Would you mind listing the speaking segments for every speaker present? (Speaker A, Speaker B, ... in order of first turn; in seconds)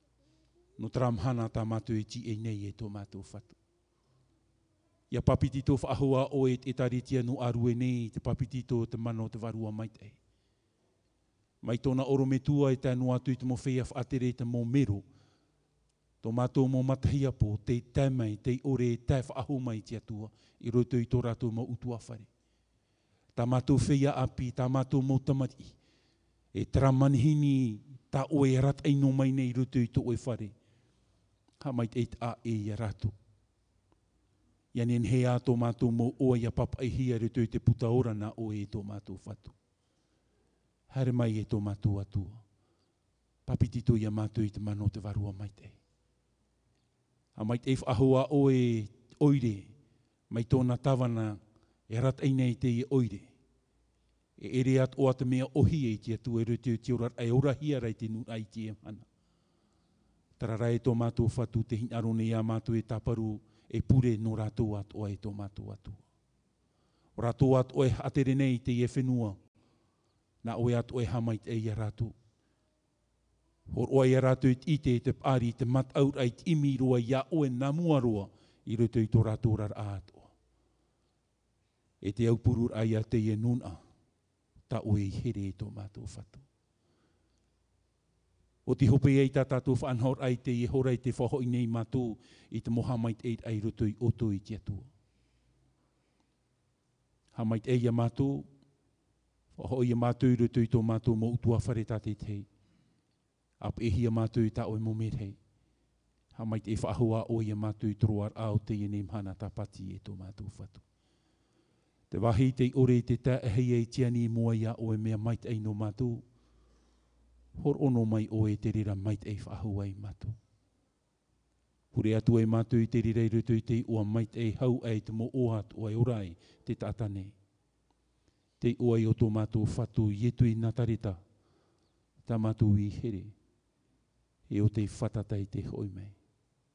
Speaker A: 0.8-3.5, 5.1-10.2, 11.6-15.0, 16.2-22.3, 23.3-25.7, 26.5-30.5, 31.6-33.1, 34.7-39.5, 40.9-42.4, 43.5-45.8, 47.4-49.7, 50.3-53.3, 54.4-59.0, 60.4-66.0, 67.2-69.4, 70.4-72.1, 73.7-80.3, 82.0-83.8, 84.7-86.4, 88.7-94.9, 97.3-98.5, 99.6-102.5, 103.6-105.4, 106.3-110.8, 112.1-116.2, 117.6-120.3, 121.9-127.3, 128.6-131.2, 132.2-133.3, 134.5-136.2